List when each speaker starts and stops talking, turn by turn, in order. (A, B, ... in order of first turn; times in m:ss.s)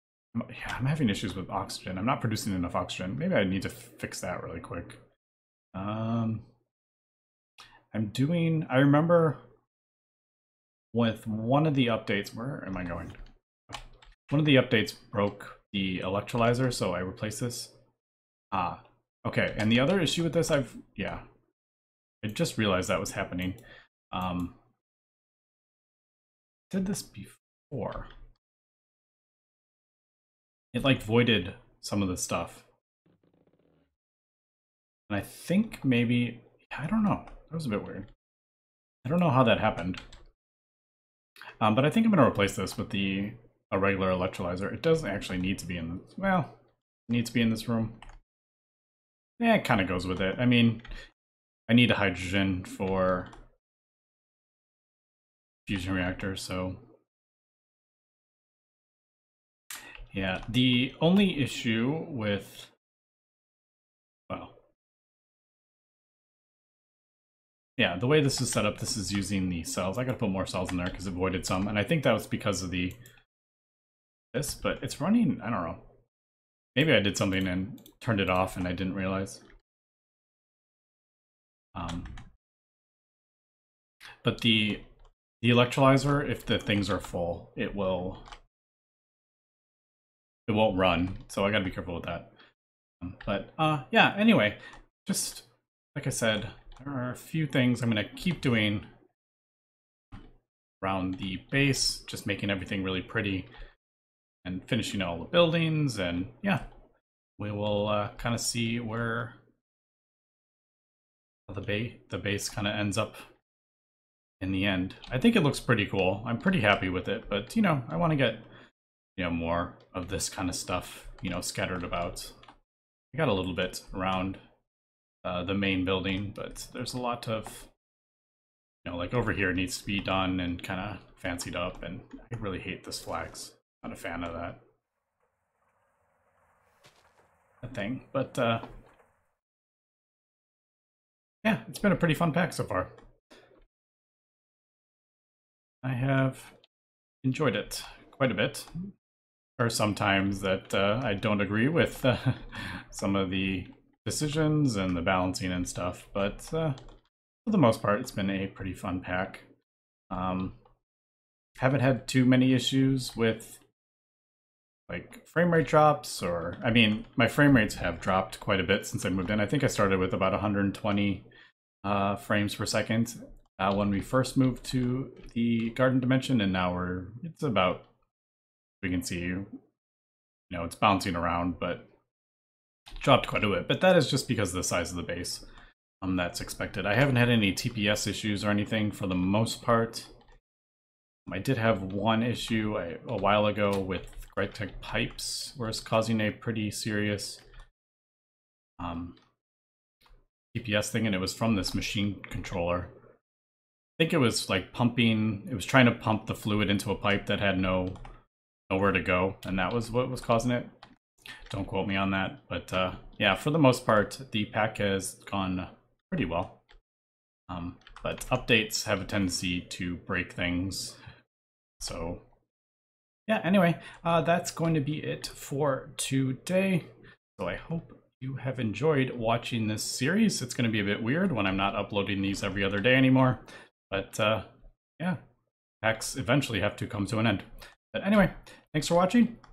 0:00.3-0:05.0 A
0:05.7-0:06.4 A
0:07.9-0:09.4 A
0:10.9-0:13.2 A
0:14.3-0:17.7 A
0:18.5-0:21.2 A
0:22.2-0:23.6 A
0:24.1-0:24.6 A
0:26.7-0:28.1 A
0:30.7-0:32.6 A
0:35.1-0:38.1 A
0:39.0-0:40.0 A
0:41.6-0:46.5 A
0:47.1-0:48.0 A
0:49.4-0:50.8 A
0:51.7-0:53.3 A
0:55.6-0:56.8 A
1:00.1-1:02.7 A
1:04.3-1:04.6 A
1:07.8-1:13.0 A
1:14.3-1:15.8 A
1:16.7-1:19.4 A
1:21.7-1:22.1 A
1:24.2-1:24.8 A
1:25.4-1:28.2 A
1:30.5-1:32.3 A
1:33.0-1:38.9 A
1:40.8-1:43.5 A
1:44.4-1:46.6 A
1:47.4-1:49.4 A
1:51.5-1:53.3 A
1:54.4-1:58.4 A
1:59.2-2:02.3 A
2:03.1-2:04.4 A
2:05.2-2:07.7 A
2:08.8-2:14.6 A
2:17.6-2:18.6 A
2:21.4-2:22.9 A
2:25.8-2:26.5 A
2:27.2-2:28.9 A
2:29.6-2:36.8 A
2:37.4-2:39.5 A
2:40.1-2:40.6 A
2:41.6-2:43.6 A
2:44.9-2:51.2 A
2:51.8-2:57.9 A
2:58.8-2:59.5 A
3:00.5-3:01.8 A
3:03.0-3:05.4 A
3:06.0-3:10.1 A
3:11.2-3:17.4 A
3:18.8-3:19.2 A
3:20.5-3:22.9 A
3:24.0-3:28.0 A
3:28.7-3:30.7 A
3:31.5-3:36.6 A
3:37.5-3:41.0 A
3:41.8-3:42.2 A
3:43.3-3:54.5 A
3:55.8-3:59.4 A